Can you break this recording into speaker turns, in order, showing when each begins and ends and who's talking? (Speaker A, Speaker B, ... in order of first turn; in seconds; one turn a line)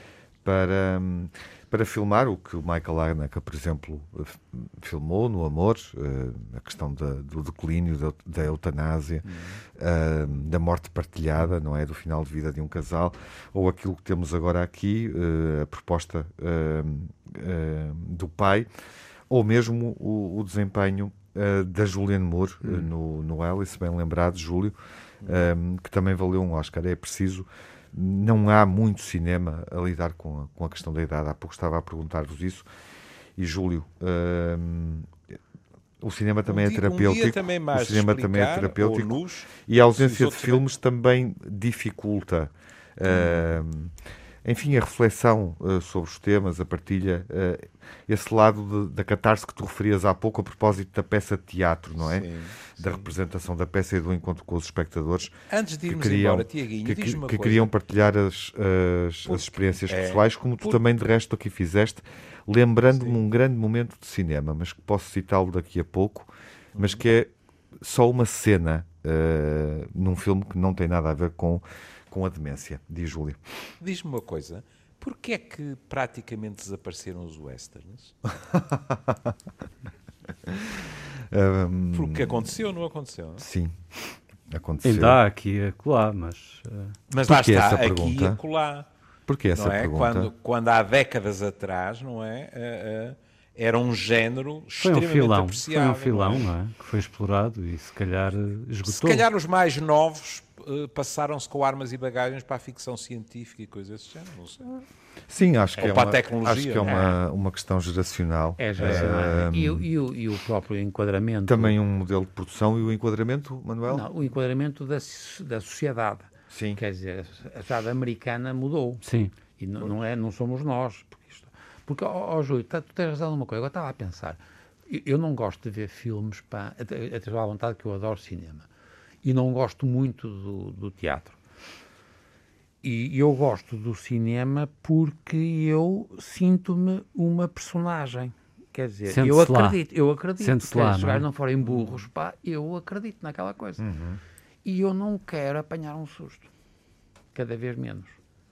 Speaker A: 0.4-18.7
Speaker B: 9.3-9.6
Speaker A: 19.3-32.7
Speaker B: 25.2-25.5
Speaker A: 33.4-35.2
Speaker A: 36.0-55.3
Speaker B: 36.5-40.6
Speaker B: 43.1-43.5
Speaker B: 52.0-53.1
Speaker B: 55.5-57.7
Speaker A: 55.9-73.4
Speaker B: 59.3-60.8
Speaker B: 66.8-67.1
Speaker B: 73.8-78.2
Speaker A: 78.5-79.3
Speaker A: 80.5-82.5
Speaker B: 81.9-83.5
Speaker A: 83.4-83.8
Speaker A: 84.5-85.2
Speaker C: 84.8-87.0
Speaker B: 87.1-88.9
Speaker A: 87.3-88.4
Speaker A: 89.3-90.3
Speaker B: 89.5-96.5
Speaker C: 94.8-99.2
Speaker B: 98.9-104.8
Speaker A: 105.3-109.9
Speaker B: 105.8-107.0
Speaker D: 106.8-107.2
Speaker D: 108.6-111.8
Speaker B: 108.8-109.2
Speaker A: 111.5-114.1
Speaker D: 113.9-119.0
Speaker A: 116.5-116.8
Speaker C: 119.0-119.3
Speaker D: 119.6-128.7
Speaker D: 129.2-131.4
Speaker D: 132.8-143.8
Speaker C: 139.1-139.8
Speaker C: 140.4-141.2
Speaker B: 141.7-142.0
Speaker A: 143.8-144.2
Speaker D: 144.7-146.5
Speaker D: 147.3-148.2